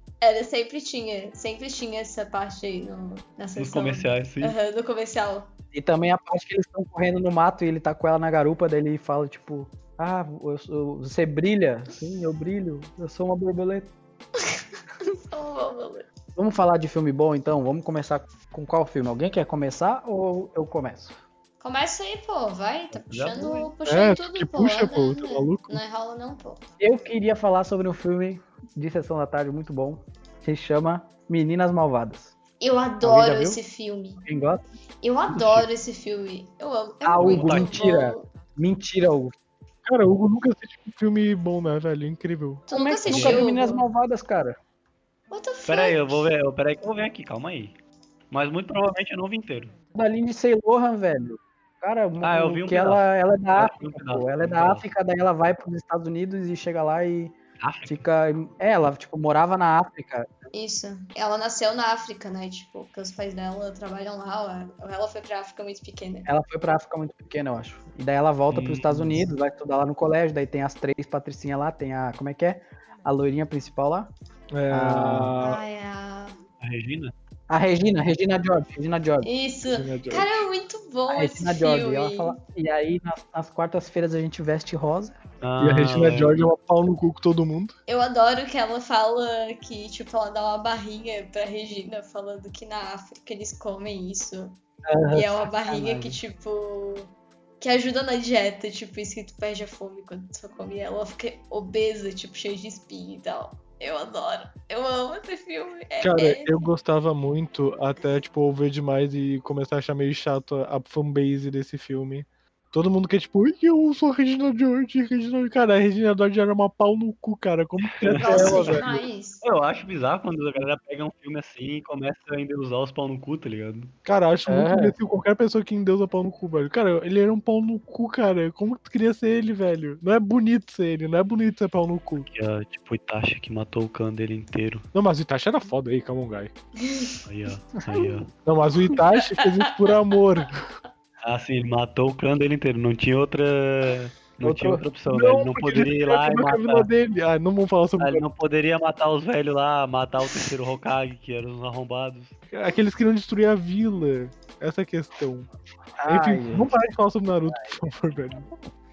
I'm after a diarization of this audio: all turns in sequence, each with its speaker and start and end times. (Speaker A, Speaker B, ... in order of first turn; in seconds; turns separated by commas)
Speaker A: 0.2-5.5, Speaker B: 3.6-4.5, Speaker C: 5.7-13.9, Speaker A: 14.4-16.1, Speaker C: 16.4-21.2, Speaker A: 21.6-26.6, Speaker B: 22.9-23.7, Speaker D: 23.9-25.8, Speaker C: 26.8-32.3, Speaker A: 32.6-34.2, Speaker C: 33.0-33.6, Speaker C: 34.2-34.6, Speaker A: 35.0-38.2, Speaker C: 35.3-35.6, Speaker C: 37.0-39.4, Speaker B: 37.2-37.8, Speaker D: 39.8-42.6, Speaker A: 42.7-43.8, Speaker C: 42.7-44.6, Speaker A: 45.3-46.2, Speaker B: 45.6-47.8, Speaker B: 48.3-49.7, Speaker C: 49.9-60.5, Speaker B: 52.2-54.9, Speaker B: 57.6-58.0, Speaker A: 60.5-66.3, Speaker C: 66.2-74.1, Speaker B: 68.5-69.2, Speaker D: 74.5-75.6, Speaker C: 74.7-75.5, Speaker A: 75.4-76.4, Speaker B: 76.6-77.1, Speaker C: 77.5-79.3, Speaker A: 79.2-82.4, Speaker D: 79.7-80.4, Speaker C: 81.1-85.2, Speaker B: 85.4-86.4, Speaker D: 85.6-87.8, Speaker A: 87.9-94.5, Speaker C: 94.9-96.2, Speaker A: 95.1-106.7, Speaker D: 106.0-118.9, Speaker B: 118.0-118.9, Speaker A: 118.2-119.4, Speaker B: 119.4-123.9, Speaker D: 124.0-132.3, Speaker C: 124.5-125.0, Speaker B: 132.2-134.9, Speaker D: 134.9-136.5, Speaker A: 136.8-137.2, Speaker B: 137.2-138.3, Speaker C: 137.8-138.1, Speaker D: 138.4-140.7, Speaker B: 141.2-146.9, Speaker C: 144.4-144.8, Speaker D: 145.1-148.2, Speaker C: 146.2-146.6, Speaker B: 148.0-152.4, Speaker D: 152.5-155.5, Speaker C: 156.0-156.7, Speaker D: 156.0-158.5